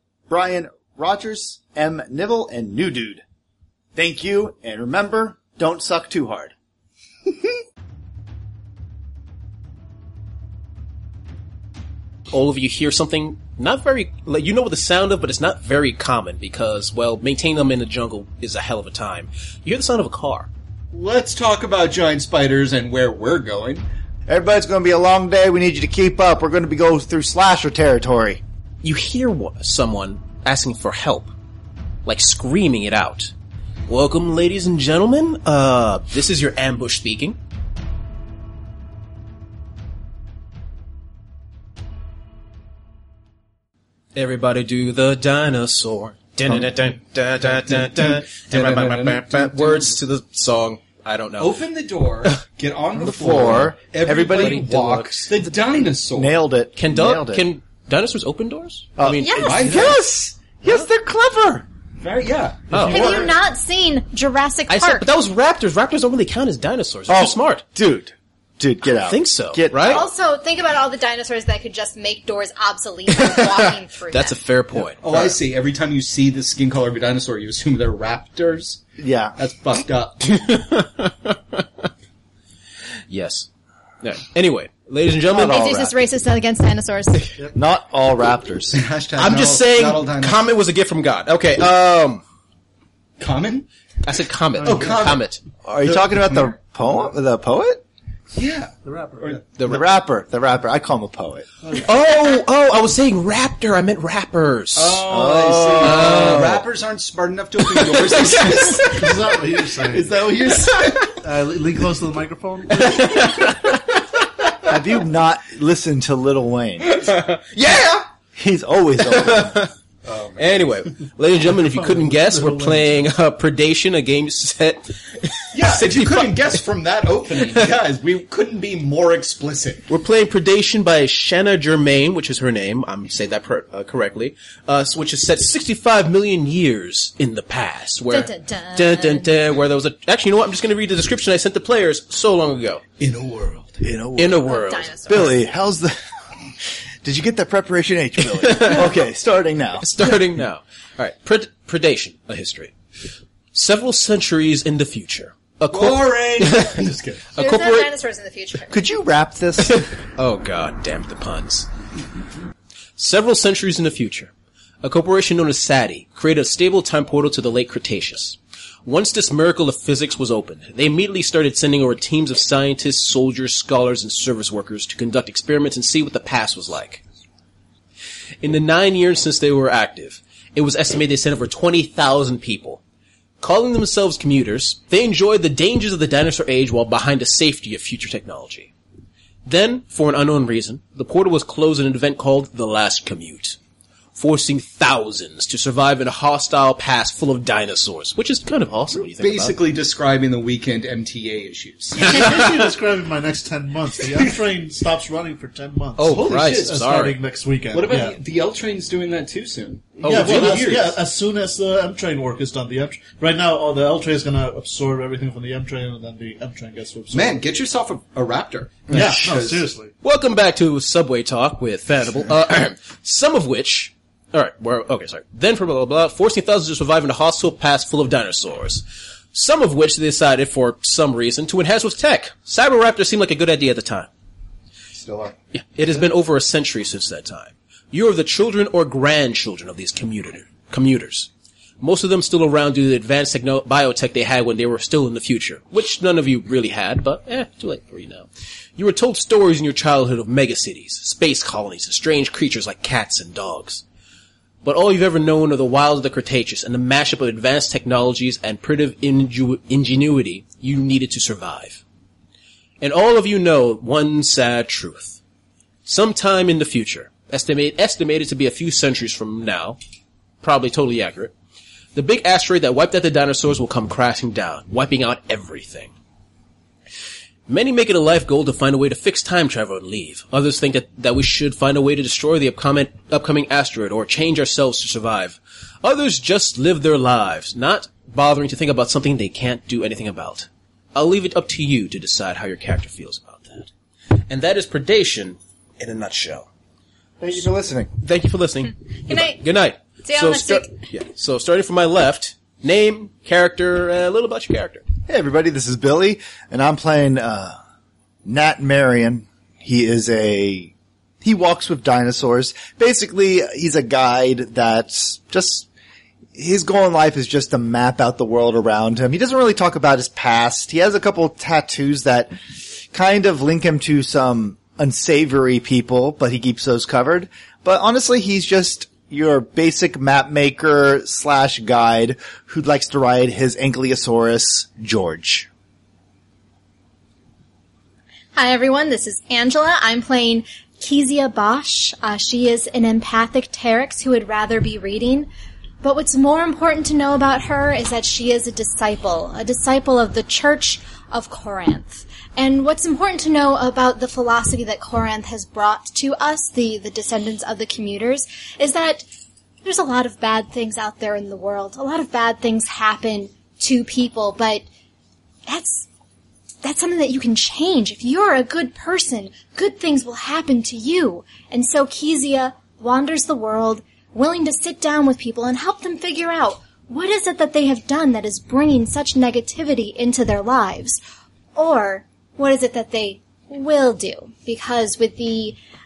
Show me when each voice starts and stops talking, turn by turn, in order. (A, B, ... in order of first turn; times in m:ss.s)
0:00.3-0:03.2 A
0:03.9-0:06.5 A
0:12.3-0:20.5 B
0:20.9-0:23.8 C
0:24.3-0:28.4 A
0:28.8-0:31.3 B
0:32.0-0:33.3 B
0:33.9-0:37.4 B
0:44.1-0:51.6 B
0:47.6-0:50.0 C
0:51.4-0:56.4 C
0:53.0-0:54.6 A
0:53.2-0:53.7 B
0:54.3-0:55.3 B
0:56.1-0:57.5 A
0:56.8-0:59.6 B
0:59.0-1:01.6 A
0:59.2-0:59.7 D
0:59.4-1:00.0 C
1:02.0-1:03.4 C
1:02.7-1:03.3 B
1:02.9-1:05.1 D
1:04.7-1:07.6 B
1:07.1-1:10.0 A
1:09.0-1:10.1 B
1:09.8-1:14.4 D
1:13.1-1:15.4 B
1:14.8-1:18.8 C
1:19.0-1:19.4 A
1:19.4-1:20.4 C
1:20.2-1:21.9 B
1:23.1-1:23.5 B
1:24.0-1:25.6 B
1:25.3-1:26.0 A
1:25.3-1:27.4 D
1:27.5-1:28.8 A
1:28.7-1:30.4 C
1:29.2-1:32.2 B
1:33.2-1:33.6 C
1:34.0-1:35.4 B
1:34.6-1:35.0 E
1:34.6-1:35.2 C
1:35.6-1:37.8 A
1:38.3-1:39.4 C
1:38.8-1:39.4 E
1:39.6-1:39.8 B
1:39.6-1:41.4 A
1:41.6-1:41.9 E
1:41.8-1:45.0 B
1:44.7-1:51.1 C
1:45.1-1:46.6 A
1:45.8-1:46.6 B
1:47.7-1:48.9 B
1:48.8-1:53.6 E
1:52.8-1:53.7 B
1:54.6-1:57.0 A
1:56.9-1:58.0 B
1:58.3-1:59.6 A
1:59.0-1:59.7 B
2:00.0-2:00.7 C
2:00.4-2:06.5 B
2:01.6-2:02.9 E
2:05.5-2:09.9 C
2:09.9-2:22.8 B
2:18.1-2:19.3 D
2:23.0-2:23.8 C
2:23.8-2:24.5 A
2:24.2-2:25.3 B
2:24.4-2:25.4 D
2:25.1-2:26.0 A
2:27.0-2:30.0 A
2:28.3-2:29.0 B
2:29.8-2:32.7 B
2:33.5-2:36.8 B
2:35.7-2:37.4 C
2:37.3-2:37.9 B
2:37.4-2:38.8 D
2:38.7-2:39.8 A
2:39.6-2:41.7 B
2:43.0-2:44.3 B
2:44.8-2:57.0 B
2:58.4-3:02.8 B
3:03.4-3:08.7 B
3:09.4-3:13.6 B
3:14.2-3:19.6 B
3:19.2-3:22.4 C
3:22.0-3:28.2 E
3:22.0-3:22.5 B
3:26.0-3:27.2 B
3:26.1-3:26.8 C
3:27.7-3:31.0 C
3:30.0-3:37.4 E
3:30.0-3:30.8 B
3:37.1-3:39.7 C
3:38.9-3:39.9 E
3:40.0-3:54.1 B
3:54.9-3:55.4 C
3:55.5-4:01.3 B
4:01.8-4:13.8 B
4:14.6-4:21.8 B
4:22.8-4:25.2 B
4:25.8-4:29.8 B
4:30.4-4:31.3 B
4:31.9-4:35.9 B
4:37.5-4:53.7 B
4:54.3-4:56.5 B
4:57.2-4:57.9 A
4:58.0-5:04.8 B
4:59.0-4:59.4 D
5:00.0-5:00.7 D
5:05.1-5:07.6 A
5:08.2-5:15.7 A
5:16.3-5:35.5 A
5:38.3-5:45.3 D
5:45.8-5:59.1 D
5:59.6-6:04.6 D
6:05.5-6:05.9 D
6:06.6-6:21.0 D
6:21.5-6:25.6 D